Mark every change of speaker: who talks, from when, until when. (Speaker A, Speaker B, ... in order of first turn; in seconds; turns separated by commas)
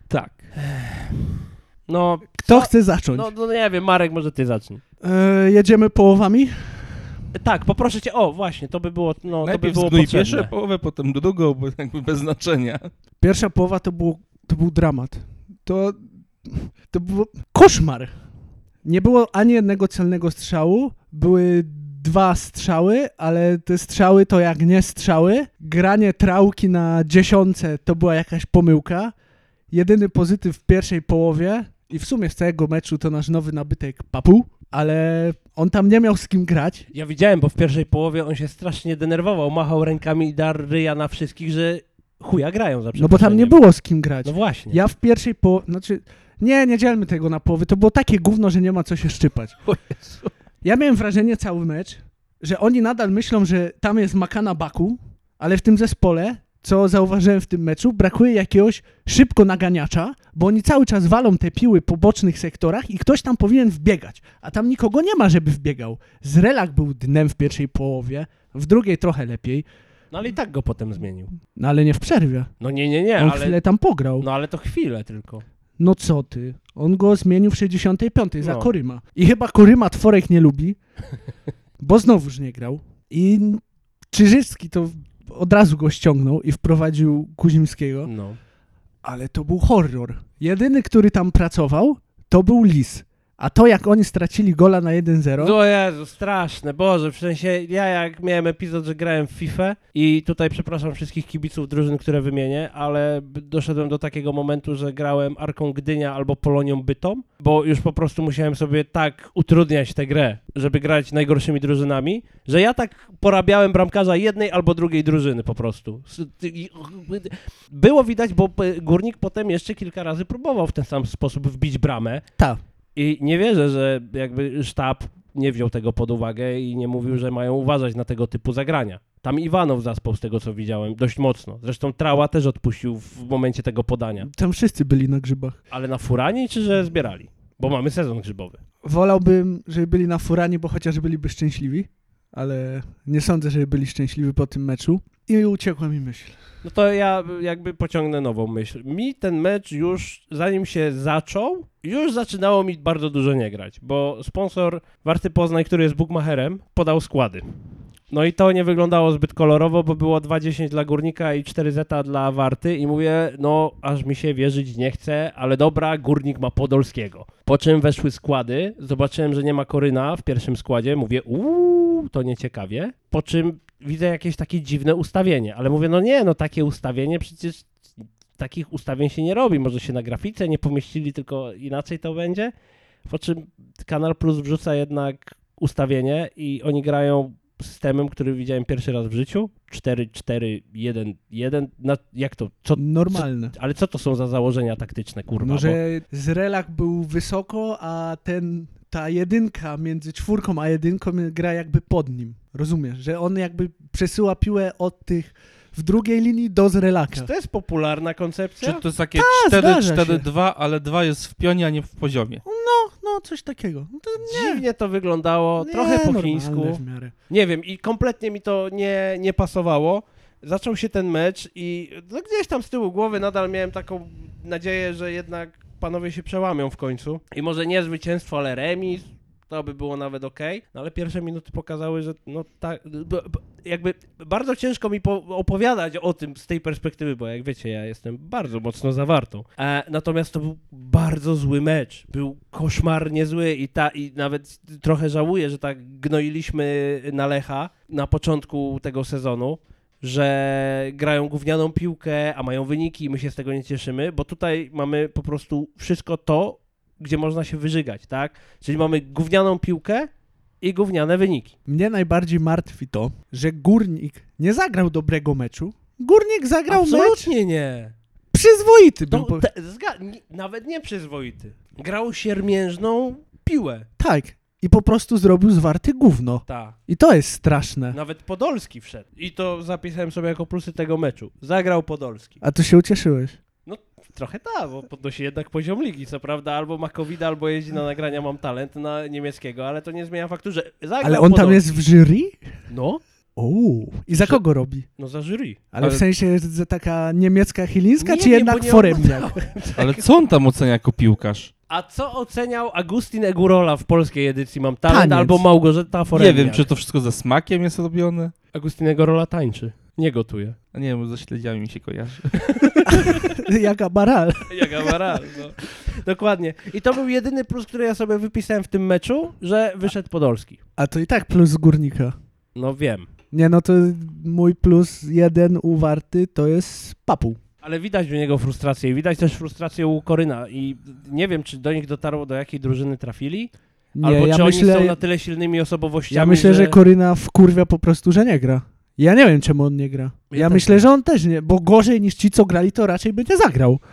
Speaker A: 0.1-0.5, Speaker B: 0.6-4.8, Speaker C: 2.4-3.3, Speaker C: 5.0-7.1, Speaker B: 7.3-10.5, Speaker A: 9.4-12.9, Speaker C: 13.2-18.1, Speaker C: 18.8-29.1, Speaker C: 29.7-36.9, Speaker B: 36.9-43.6, Speaker C: 43.0-49.6, Speaker B: 44.2-44.8, Speaker B: 49.7-50.3, Speaker C: 50.6-69.7, Speaker B: 70.1-71.3, Speaker C: 71.6-72.5, Speaker B: 72.6-73.6, Speaker C: 73.2-74.3, Speaker B: 74.2-75.4, Speaker C: 75.8-80.8, Speaker B: 78.4-78.7, Speaker C: 81.8-88.1, Speaker B: 88.1-88.4, Speaker C: 89.0-95.6, Speaker B: 95.4-122.2, Speaker B: 123.0-134.3, Speaker C: 134.2-135.6, Speaker B: 135.7-138.6, Speaker C: 138.8-146.4, Speaker B: 146.6-157.4, Speaker B: 158.1-177.8, Speaker B: 178.4-182.5, Speaker B: 183.1-195.8, Speaker C: 192.8-193.5, Speaker C: 195.4-207.3, Speaker B: 207.1-208.8, Speaker A: 208.6-212.4, Speaker C: 209.2-210.3, Speaker C: 212.4-214.6, Speaker B: 214.2-260.1, Speaker C: 215.6-217.1, Speaker B: 260.6-261.6, Speaker C: 261.7-267.3, Speaker B: 266.7-267.9, Speaker C: 268.3-269.5, Speaker B: 269.1-273.9, Speaker C: 274.0-278.0, Speaker B: 276.5-276.8, Speaker B: 277.9-282.4, Speaker C: 282.4-283.4, Speaker B: 283.7-291.6, Speaker C: 291.0-292.4, Speaker B: 292.7-293.0, Speaker C: 293.4-294.9, Speaker B: 295.0-295.6, Speaker C: 295.7-299.4, Speaker B: 298.0-300.1, Speaker A: 299.8-301.5, Speaker B: 301.7-306.7, Speaker C: 304.9-305.4, Speaker A: 306.1-308.3, Speaker B: 308.5-310.6, Speaker A: 310.7-312.9, Speaker B: 312.5-313.3, Speaker C: 312.9-315.2, Speaker B: 314.5-320.6, Speaker C: 320.8-322.1, Speaker B: 322.6-323.1, Speaker C: 323.3-327.4, Speaker B: 327.6-333.5, Speaker C: 334.0-335.0, Speaker B: 334.0-336.8, Speaker C: 336.1-343.8, Speaker B: 340.3-340.9